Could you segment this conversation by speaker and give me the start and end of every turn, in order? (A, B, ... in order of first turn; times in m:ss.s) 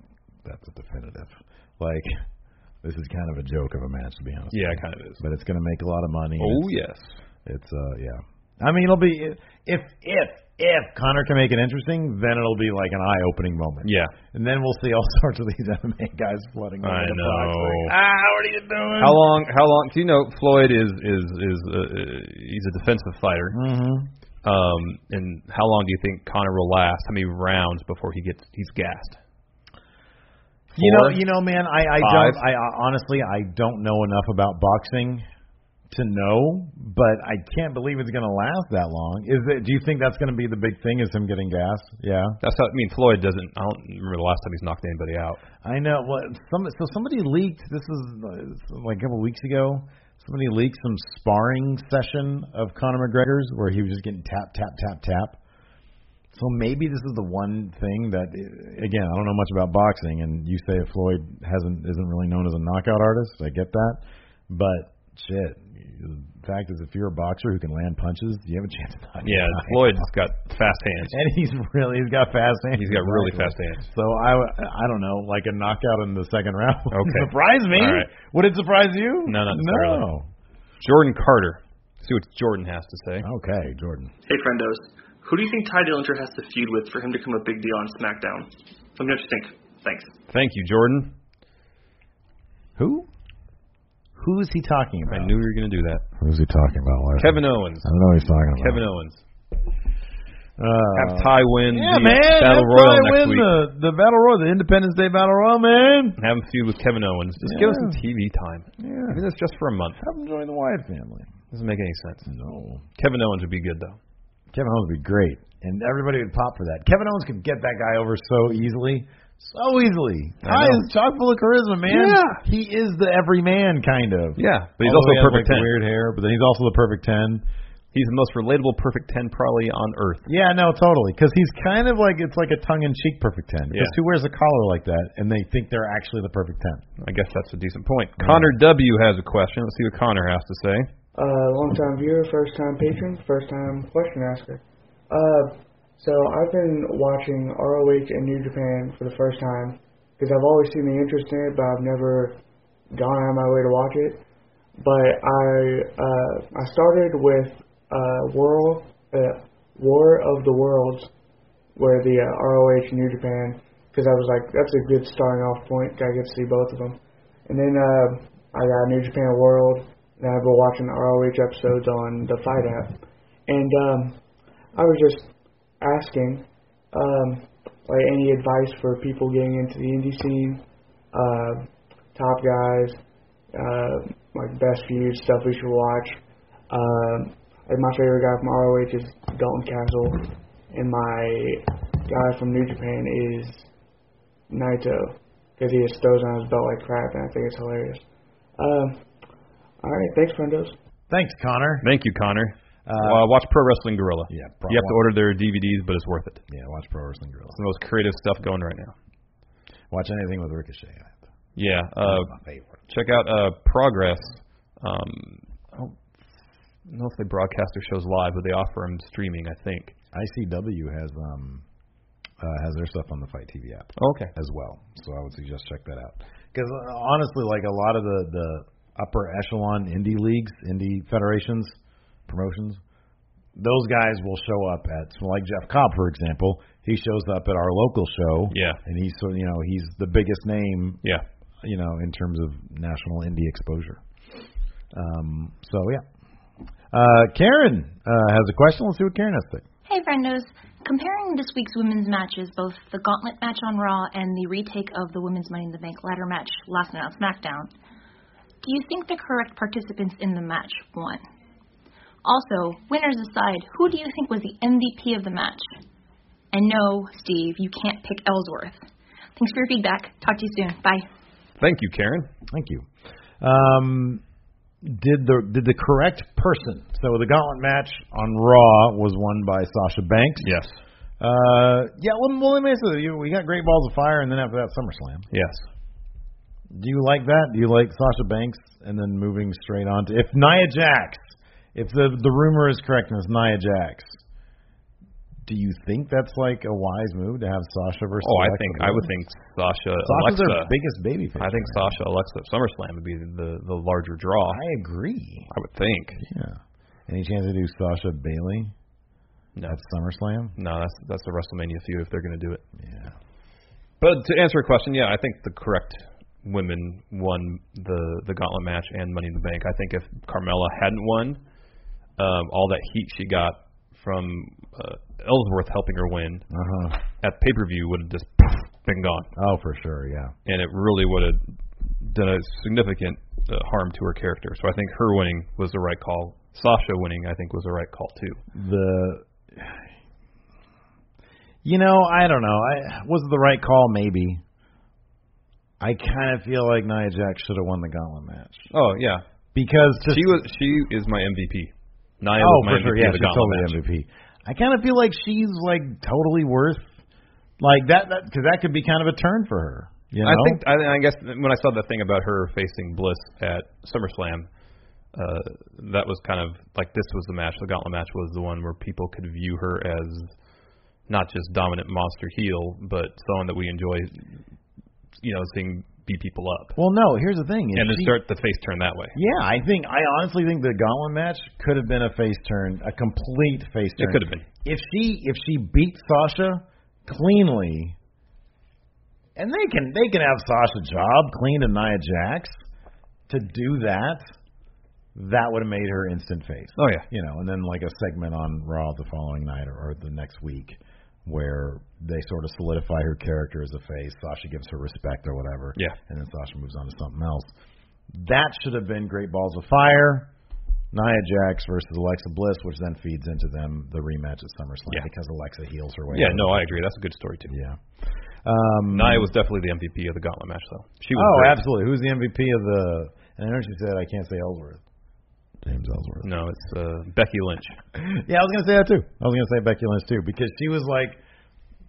0:00.4-0:02.2 A
0:02.8-0:06.7 A
0:04.5-0:05.2 B
0:06.4-0:07.2 B
0:07.4-0:19.2 A
0:13.8-0:14.1 B
0:16.8-0:17.9 B
0:19.0-0:23.6 B
0:23.5-0:24.1 A
0:24.4-0:29.2 B
0:30.7-0:35.3 A
0:30.8-0:31.2 B
0:32.0-0:32.4 B
0:35.9-0:42.4 A
0:42.4-0:45.4 B
0:45.6-0:55.4 A
0:56.3-1:10.1 A
1:09.2-1:11.2 B
1:11.1-1:20.3 A
1:12.7-1:13.9 B
1:16.9-1:18.1 B
1:19.2-1:20.1 B
1:20.8-1:23.3 B
1:23.2-1:24.1 A
1:24.3-1:30.1 C
1:30.3-1:31.1 B
1:32.8-1:33.1 A
1:34.2-1:35.4 A
1:35.1-1:36.0 B
1:36.2-1:38.8 A
1:37.2-1:37.9 B
1:38.6-1:39.2 B
1:40.6-1:46.2 A
1:40.9-1:43.5 B
1:46.2-1:50.0 B
1:47.4-1:48.0 A
1:48.8-1:49.2 A
1:50.0-1:51.3 A
1:51.5-1:52.3 B
1:52.3-1:52.8 A
1:53.0-1:54.0 B
1:54.5-2:07.4 A
2:00.4-2:00.8 B
2:01.9-2:02.4 B
2:04.4-2:05.7 B
2:07.9-2:10.3 B
2:10.3-2:16.8 A
2:13.7-2:14.0 B
2:17.0-2:20.9 B
2:18.2-2:18.5 A
2:21.1-2:32.4 D
2:32.9-2:34.2 D
2:34.8-2:41.1 D
2:41.8-2:54.2 D
2:54.7-3:03.0 D
3:03.5-3:06.2 D
3:06.7-3:13.7 D
3:14.5-3:18.0 D
3:18.6-3:19.0 D
3:19.8-3:20.7 D
3:21.1-3:21.9 A
3:21.8-3:26.4 B
3:22.9-3:23.3 A
3:24.3-3:25.0 A
3:26.5-3:27.6 A
3:27.5-3:29.0 B
3:29.9-3:31.2 A
3:31.6-3:32.3 B
3:32.0-3:32.8 A
3:32.9-3:36.0 B
3:36.9-3:40.0 B
3:40.1-3:41.6 A
3:42.4-3:52.8 A
3:44.0-3:44.3 B
3:53.6-4:01.0 A
3:58.5-3:58.8 B
4:01.6-4:04.0 A
4:04.9-4:06.0 A
4:06.9-4:09.6 A
4:09.9-4:17.7 E
4:18.6-4:21.2 E
4:22.2-4:25.7 E
4:26.5-4:28.8 E
4:29.4-4:31.0 E
4:31.6-4:32.3 B
4:32.5-4:32.9 A
4:33.4-4:34.2 A
4:34.8-4:40.6 A
4:40.4-4:40.8 B
4:41.2-4:45.3 A
4:45.3-4:45.6 B
4:46.7-4:54.2 A
4:55.4-4:59.1 A
4:58.2-5:00.7 B
5:00.0-5:02.0 A
5:01.4-5:04.6 B
5:04.5-5:05.5 A
5:05.5-5:06.2 B
5:06.2-5:08.7 A
5:09.6-5:10.6 A
5:10.6-5:12.6 B
5:12.8-5:13.1 A
5:14.0-5:21.4 B
5:22.2-5:26.5 B
5:26.5-5:27.0 A
5:27.2-5:29.3 B
5:29.4-5:30.3 A
5:30.4-5:31.4 B
5:32.0-5:38.4 B
5:38.5-5:39.9 A
5:41.6-5:44.4 A
5:45.8-5:48.7 A
5:48.7-5:49.2 B
5:49.5-5:50.4 A
5:50.0-5:53.8 B
5:52.4-5:57.0 A
5:57.6-6:00.6 A
6:00.2-6:04.5 B
6:05.1-6:10.3 B
6:11.1-6:14.2 B
6:15.2-6:16.8 B
6:16.8-6:18.1 A
6:17.7-6:19.2 B
6:19.1-6:28.0 A
6:24.0-6:24.4 B
6:29.4-6:32.6 A
6:33.3-6:34.2 A
6:35.1-6:47.5 A
6:36.8-6:37.0 B
6:48.1-6:50.3 A
6:50.9-6:56.8 A
6:56.1-6:57.5 B
6:57.5-6:59.3 A
6:58.9-7:01.6 B
7:01.1-7:04.8 A
7:05.6-7:06.3 A
7:06.2-7:07.8 B
7:08.0-7:11.2 A